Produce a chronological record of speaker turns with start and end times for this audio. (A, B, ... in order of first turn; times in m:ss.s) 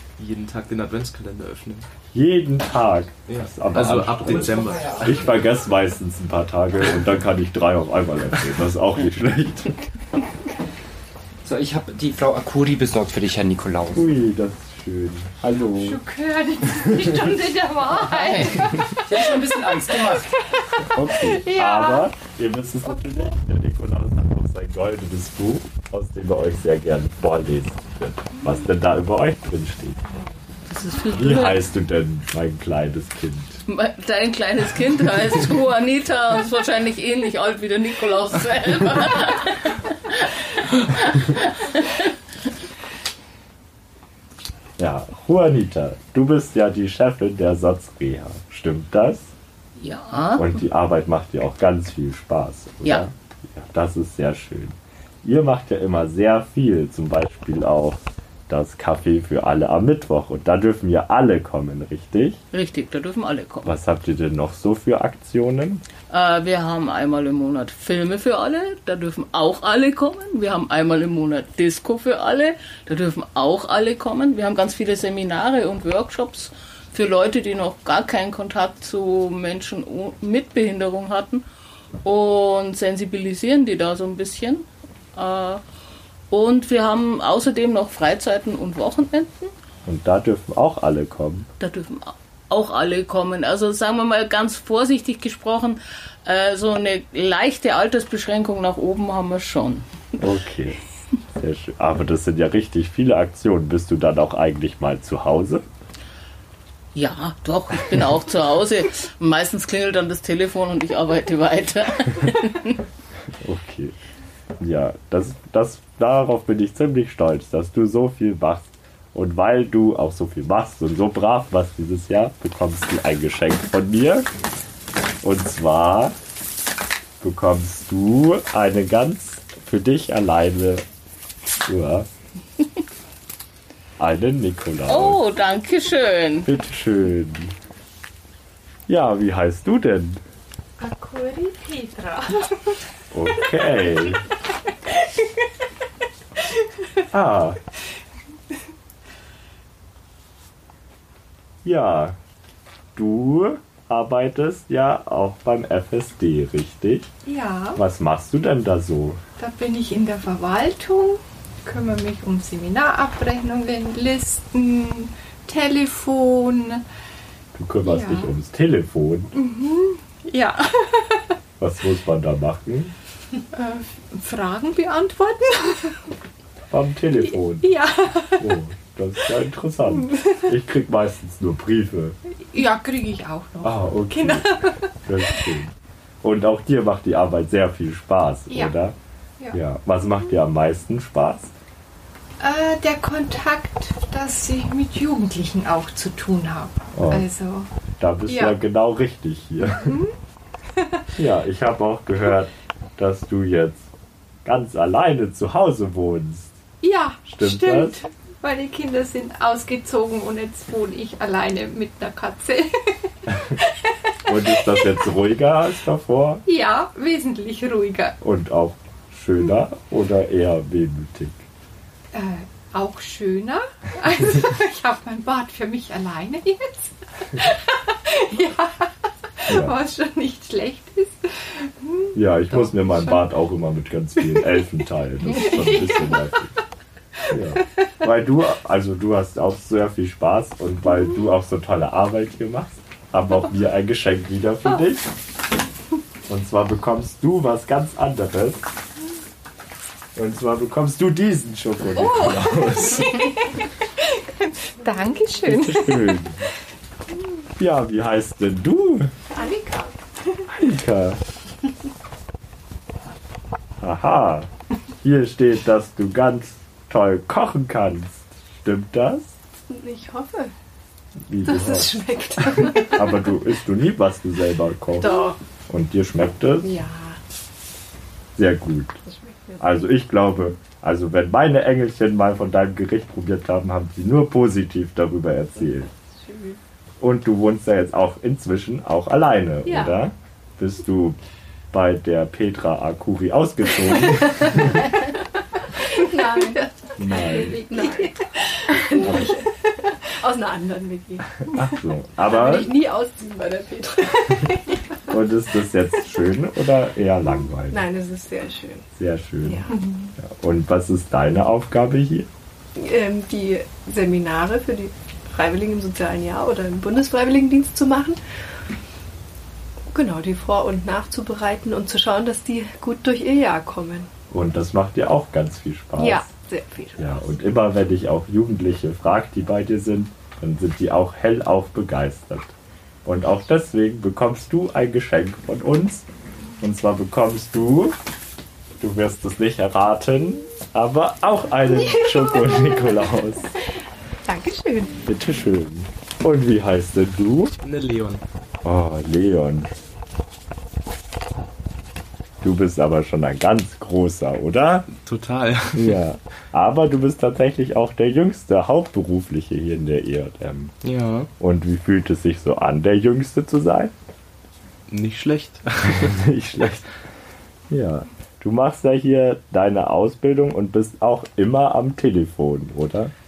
0:00.2-0:01.9 A
0:02.1-0:09.8 B
0:03.3-0:05.2 A
0:04.2-0:05.4 C
0:11.4-0:14.2 C
0:13.9-0:16.0 B
0:15.6-0:22.1 D
0:18.1-0:20.4 C
0:20.9-0:30.0 B
0:30.7-0:31.7 E
0:31.2-0:33.6 B
0:33.7-0:42.1 E
0:44.8-0:49.3 B
0:49.8-0:50.6 E
0:50.4-1:02.4 B
1:02.5-1:03.7 E
1:03.6-1:05.8 B
1:06.1-1:21.4 E
1:22.0-1:25.6 E
1:26.3-1:29.5 E
1:29.9-1:31.5 B
1:31.6-1:39.9 E
1:40.2-1:40.8 B
1:41.4-1:45.6 B
1:47.0-1:52.8 E
1:53.4-1:54.0 B
1:54.6-2:04.3 B
2:05.2-2:06.2 B
2:07.2-2:10.8 B
2:11.7-2:12.1 B
2:14.0-2:15.2 B
2:14.9-2:16.5 E
2:16.4-2:17.5 B
2:18.9-2:20.2 B
2:20.8-2:22.8 D
2:23.1-2:24.2 B
2:27.1-2:27.6 B
2:31.6-2:32.2 B
2:33.0-2:37.1 B
2:37.3-2:37.8 D
2:37.8-2:39.2 B
2:39.4-2:46.8 D
2:47.6-2:49.3 B
2:47.8-2:48.3 D
2:49.3-2:51.3 D
2:51.6-2:52.9 B
2:53.5-2:56.0 D
2:56.7-2:57.8 B
2:57.6-2:58.4 D
2:58.3-3:02.2 B
3:02.5-3:05.3 D
3:03.6-3:09.0 B
3:08.5-3:08.8 D
3:09.5-3:11.5 B
3:12.4-3:17.7 D
3:16.9-3:17.3 B
3:18.0-3:20.0 B
3:18.3-3:18.6 D
3:19.8-3:20.1 D
3:21.2-3:23.9 B
3:24.4-3:26.5 B
3:26.8-3:32.8 D
3:27.3-3:28.0 B
3:34.2-3:36.4 B
3:36.5-3:38.2 D
3:38.2-3:41.4 B
3:42.1-3:53.3 D
3:49.5-3:49.8 B
3:52.2-3:56.5 B
3:55.3-3:56.3 D
3:57.3-4:05.1 B
4:06.3-4:08.7 B
4:10.2-4:13.5 B
4:11.9-4:16.2 D
4:15.4-4:16.4 B
4:17.6-4:19.1 B
4:19.3-4:20.0 F
4:20.5-4:21.2 B
4:23.8-4:24.5 B
4:25.0-4:29.4 B
4:29.7-4:30.5 F
4:31.3-4:32.0 B
4:31.4-4:33.2 F
4:32.5-4:35.2 B
4:35.0-4:35.4 F
4:35.7-4:36.7 B
4:36.6-4:37.2 F
4:38.4-4:39.0 B
4:39.0-4:39.7 F
4:39.6-4:45.9 B
4:46.0-4:46.6 F
4:47.0-4:51.2 B
4:49.6-4:50.0 F
4:51.7-4:54.9 B
4:55.9-5:04.8 F
4:57.0-4:57.6 B
4:59.0-4:59.4 B
5:01.5-5:02.7 B
5:05.1-5:07.8 B
5:07.7-5:08.9 F
5:09.0-5:09.7 B
5:09.4-5:10.0 F
5:10.2-5:12.3 B
5:12.8-5:18.2 F
5:19.9-5:24.1 F
5:24.3-5:26.3 B
5:26.0-5:27.2 F
5:27.0-5:32.5 B
5:33.0-5:36.1 B
5:36.6-5:38.0 B
5:38.8-5:43.5 B
5:44.3-5:44.9 D
5:45.0-5:47.5 B
5:47.6-5:48.2 A
5:48.6-5:49.7 B
5:52.4-5:54.9 B
5:54.9-5:56.0 A
5:55.7-6:00.8 B
6:00.8-6:01.3 A
6:01.4-6:03.9 B
6:04.9-6:06.2 A
6:06.0-6:06.9 B
6:07.7-6:13.1 B